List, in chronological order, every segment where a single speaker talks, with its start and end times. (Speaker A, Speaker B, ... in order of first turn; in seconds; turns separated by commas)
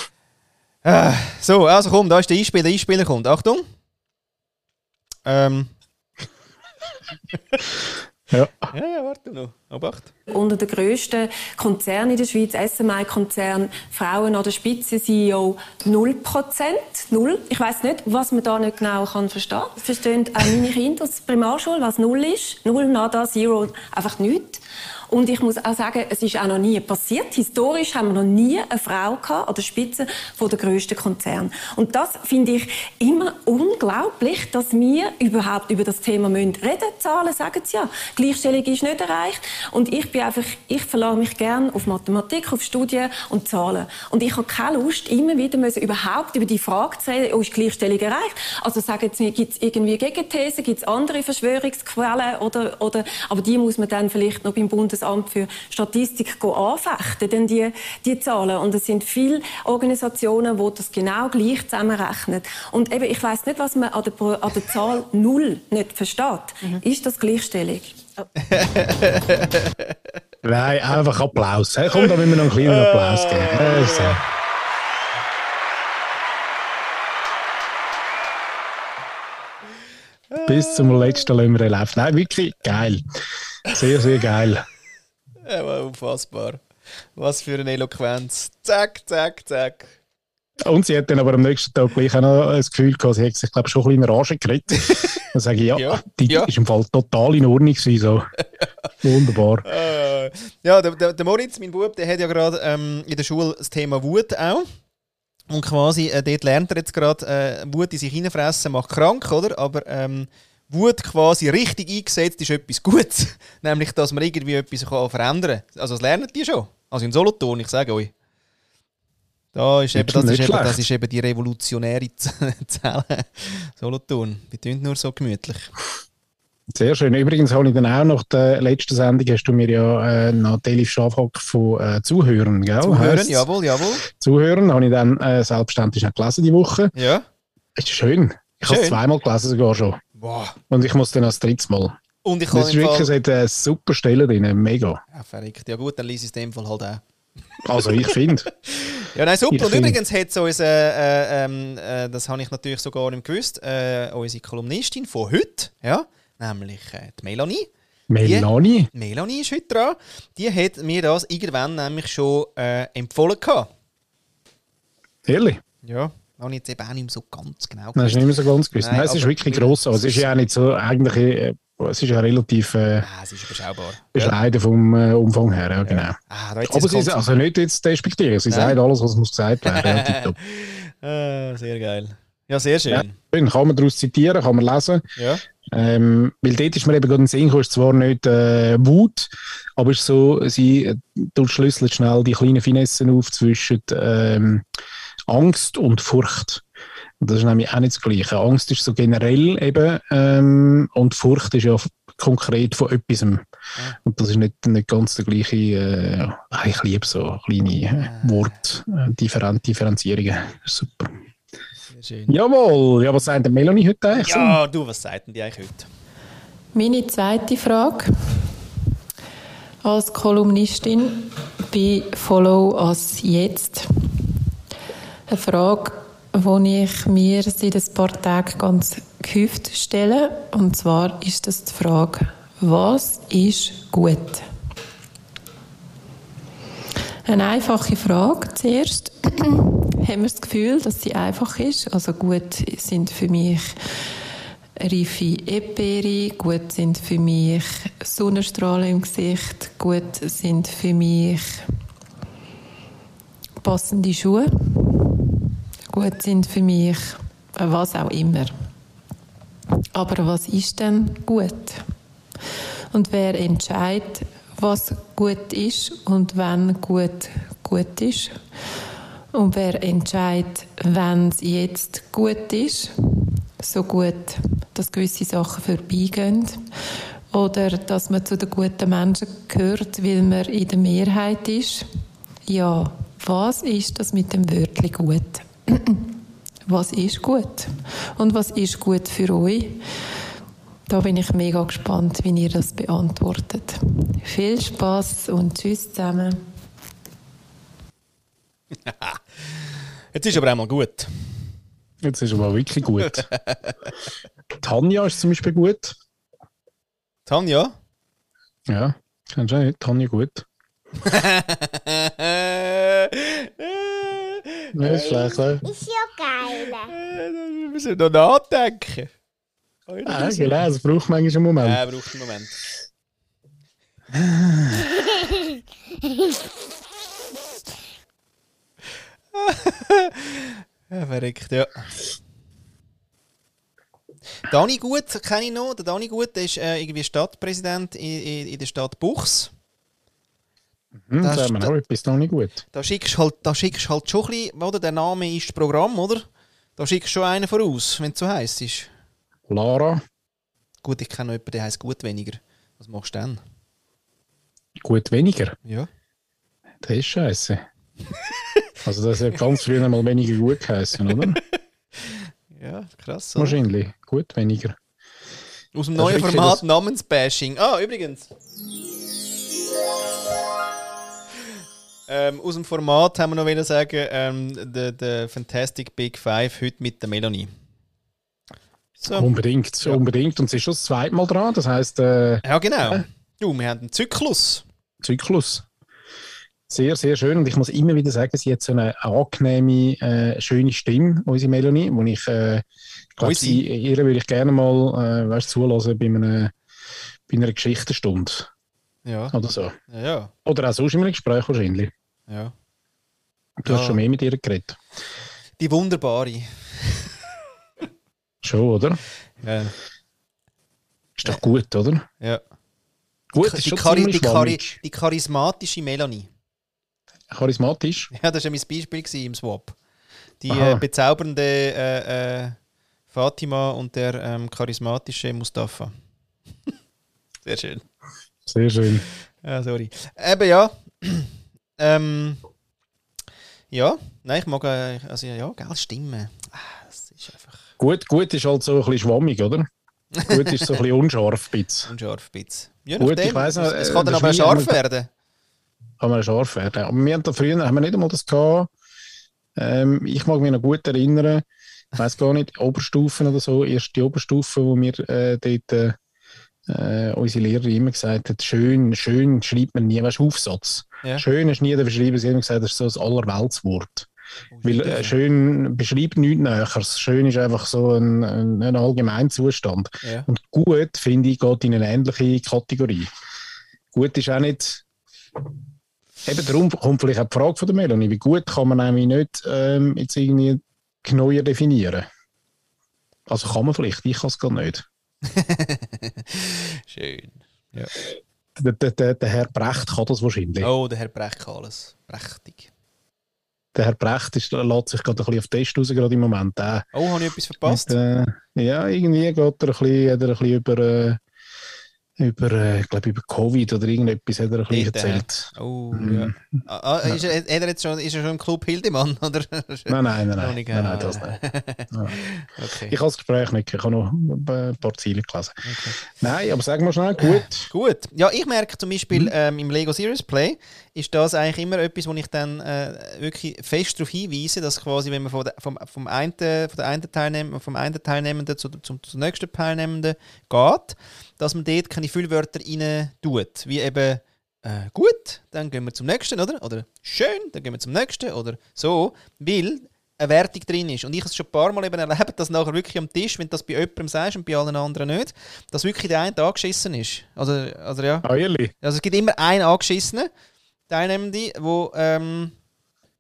Speaker A: 0.8-3.7, Speaker A: 5.2-5.7, Speaker B: 8.3-8.6, Speaker A: 8.7-10.1, Speaker C: 10.3-68.3, Speaker A: 68.4-69.9, Speaker B: 70.4-74.2, Speaker A: 71.9-74.2, Speaker A: 80.3-81.3, Speaker B: 80.5-83.0, Speaker B: 83.7-84.7, Speaker A: 85.5-86.6, Speaker A: 87.2-89.9, Speaker B: 90.7-98.3, Speaker A: 94.9-95.2, Speaker A: 95.8-96.5, Speaker B: 99.0-99.7, Speaker A: 99.7-104.7, Speaker A: 105.5-118.1, Speaker A: 119.5-125.7, Speaker B: 120.0-120.8, Speaker B: 126.8-133.5, Speaker A: 132.8-134.1, Speaker B: 134.1-136.9, Speaker A: 136.9-137.3, Speaker B: 137.8-140.0, Speaker A: 138.7-139.0, Speaker A: 140.2-140.6, Speaker B: 140.7-141.9, Speaker A: 142.2-143.1, Speaker B: 142.5-145.0, Speaker A: 145.1-147.0, Speaker A: 147.6-157.7, Speaker B: 147.6-148.5, Speaker B: 149.5-150.0, Speaker B: 158.1-158.9, Speaker A: 158.2-163.7, Speaker B: 165.3-165.6, Speaker A: 165.8-170.3, Speaker B: 167.9-173.1, Speaker A: 173.0-174.4, Speaker B: 174.1-180.4, Speaker A: 175.8-177.2, Speaker A: 178.5-178.8, Speaker A: 179.7-183.2, Speaker B: 182.9-185.1, Speaker A: 185.2-185.4, Speaker B: 185.7-194.7, Speaker B: 195.3-196.6, Speaker B: 197.2-203.4, Speaker B: 204.0-211.2, Speaker A: 208.0-208.6, Speaker A: 211.9-212.4, Speaker B: 212.3-214.6, Speaker A: 214.1-215.9, Speaker D: 216.7-218.5, Speaker D: 219.8-224.4, Speaker D: 225.3-234.5, Speaker D: 237.2-243.8, Speaker D: 244.8-251.6, Speaker D: 253.6-258.5, Speaker D: 259.9-261.8, Speaker D: 262.9-268.4, Speaker D: 269.3-276.7, Speaker D: 277.3-281.9, Speaker D: 282.5-286.1, Speaker D: 286.7-289.8, Speaker D: 290.9-296.4, Speaker A: 298.9-299.6, Speaker A: 300.1-301.1, Speaker B: 302.0-303.2, Speaker A: 303.1-303.8, Speaker B: 304.6-305.9, Speaker A: 307.3-307.8, Speaker B: 308.7-310.5, Speaker A: 311.0-315.4, Speaker B: 314.7-315.7, Speaker A: 316.7-319.1, Speaker A: 319.9-320.6, Speaker B: 320.1-321.8, Speaker A: 321.6-322.6, Speaker B: 324.1-324.9, Speaker A: 329.3-331.9, Speaker A: 334.5-339.5, Speaker B: 341.1-342.6, Speaker A: 341.2-341.7, Speaker A: 342.7-346.3, Speaker A: 346.8-348.9, Speaker B: 349.5-350.0, Speaker A: 350.8-353.4, Speaker B: 354.8-355.6, Speaker B: 356.8-357.6, Speaker B: 358.8-361.4, Speaker A: 362.0-363.6, Speaker B: 363.4-364.8, Speaker A: 365.8-368.3, Speaker B: 366.0-366.6, Speaker A: 372.1-377.5, Speaker A: 379.0-379.3, Speaker B: 379.1-383.0, Speaker A: 382.4-384.6, Speaker B: 385.0-385.6, Speaker B: 386.7-392.6, Speaker B: 393.2-396.5, Speaker A: 393.2-393.6, Speaker B: 397.3-398.5, Speaker A: 399.1-399.3, Speaker B: 399.3-399.8, Speaker A: 399.9-400.3, Speaker B: 400.4-401.9, Speaker A: 402.3-402.5, Speaker B: 403.6-404.8, Speaker A: 403.7-404.0, Speaker A: 405.6-407.1, Speaker B: 408.4-409.0, Speaker A: 409.4-409.8, Speaker B: 411.2-412.1, Speaker B: 413.3-414.8, Speaker A: 413.4-416.3, Speaker B: 417.3-418.1, Speaker A: 418.1-419.8, Speaker A: 420.4-422.6, Speaker B: 420.5-420.8, Speaker A: 423.1-425.9, Speaker A: 427.4-427.8, Speaker B: 428.5-429.1, Speaker A: 429.4-432.4, Speaker A: 433.7-437.6, Speaker B: 437.8-439.7, Speaker A: 440.1-440.8, Speaker B: 440.3-441.9, Speaker A: 441.9-445.1, Speaker B: 443.0-444.8, Speaker B: 446.0-448.7, Speaker B: 449.6-451.4, Speaker B: 452.0-456.0, Speaker B: 456.7-464.1, Speaker A: 464.5-465.2, Speaker B: 464.6-473.1, Speaker B: 473.9-474.8, Speaker B: 476.2-482.1, Speaker B: 483.3-484.9, Speaker A: 485.2-487.9, Speaker B: 488.6-490.7, Speaker A: 490.6-492.7, Speaker B: 493.8-496.9, Speaker A: 496.9-497.9, Speaker B: 497.6-501.2, Speaker B: 502.2-506.4, Speaker A: 504.7-513.0, Speaker B: 509.9-511.3, Speaker B: 512.9-517.7, Speaker A: 515.6-516.0, Speaker A: 517.2-548.3, Speaker B: 548.2-548.7, Speaker A: 548.8-550.3, Speaker A: 550.9-552.5